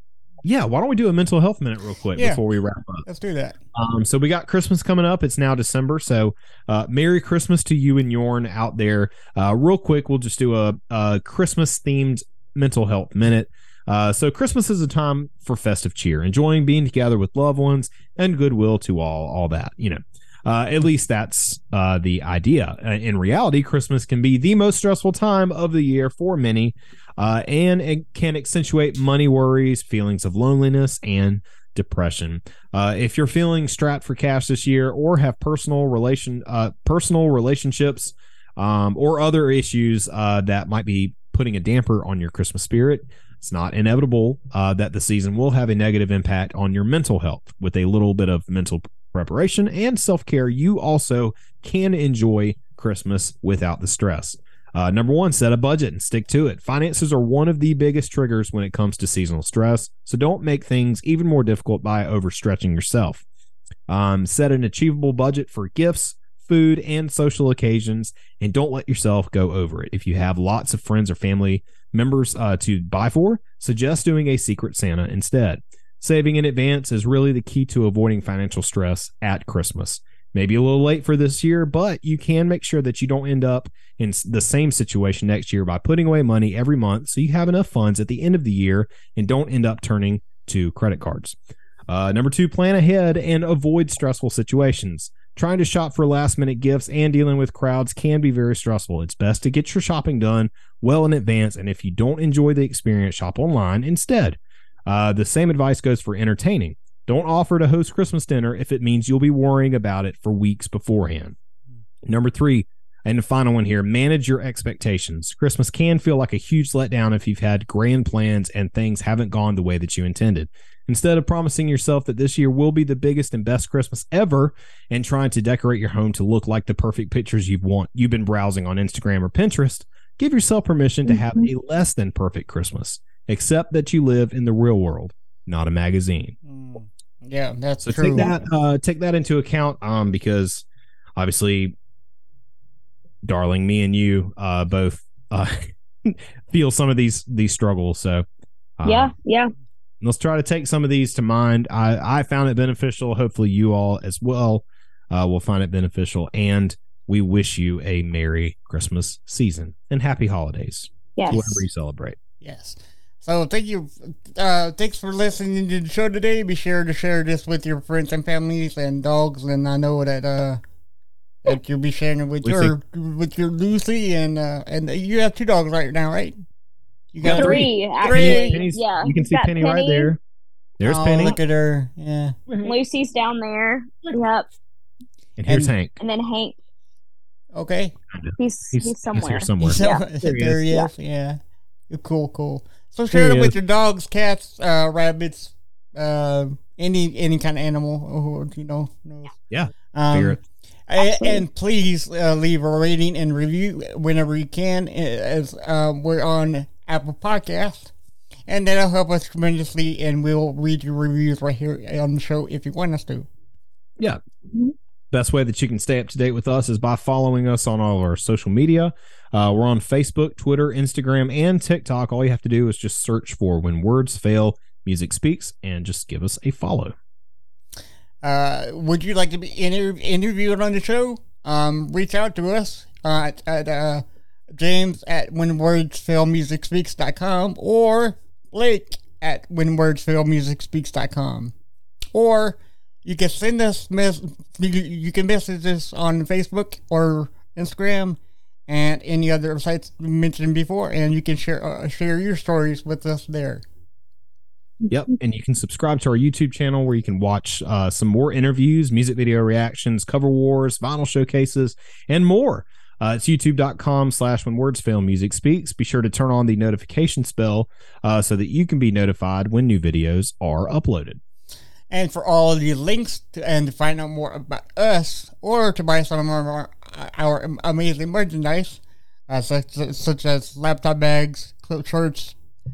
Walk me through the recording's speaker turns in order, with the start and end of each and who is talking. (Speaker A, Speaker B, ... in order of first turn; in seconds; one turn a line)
Speaker A: 0.4-3.0
Speaker B: 3.0-3.6
Speaker A: 3.7-63.2
Speaker A: 63.9-91.4
Speaker A: 91.9-111.3
Speaker A: 112.0-136.3
Speaker C: 131.1-131.5
Speaker B: 136.4-138.3
Speaker A: 137.8-140.6
Speaker A: 141.2-141.7
Speaker A: 143.2-148.2
Speaker A: 148.8-149.1
Speaker C: 148.8-149.5
Speaker A: 150.0-162.2
Speaker C: 161.2-161.4
Speaker B: 162.4-170.6
Speaker B: 171.4-176.4
Speaker A: 172.4-172.7
Speaker B: 177.1-178.6
Speaker A: 177.2-180.2
Speaker C: 177.3-180.1
Speaker A: 180.8-181.4
Speaker B: 180.8-182.4
Speaker A: 182.5-182.7
Speaker C: 182.6-184.5
Speaker A: 185.4-185.9
Speaker B: 185.5-185.7
Speaker C: 186.0-186.5
Speaker B: 187.5-187.9
Speaker A: 188.1-190.6
Speaker C: 188.4-190.0
Speaker B: 189.6-191.4
Speaker B: 191.9-199.3
Speaker A: 193.1-193.6
Speaker A: 199.5-200.4
Speaker B: 199.9-207.9
Speaker C: 201.0-201.4
Speaker B: 208.5-213.3
Speaker A: 215.1-226.9
Speaker B: 228.2-241.5
Speaker B: 242.1-253.6
Speaker A: 254.9-271.2
Speaker B: 271.9-282.4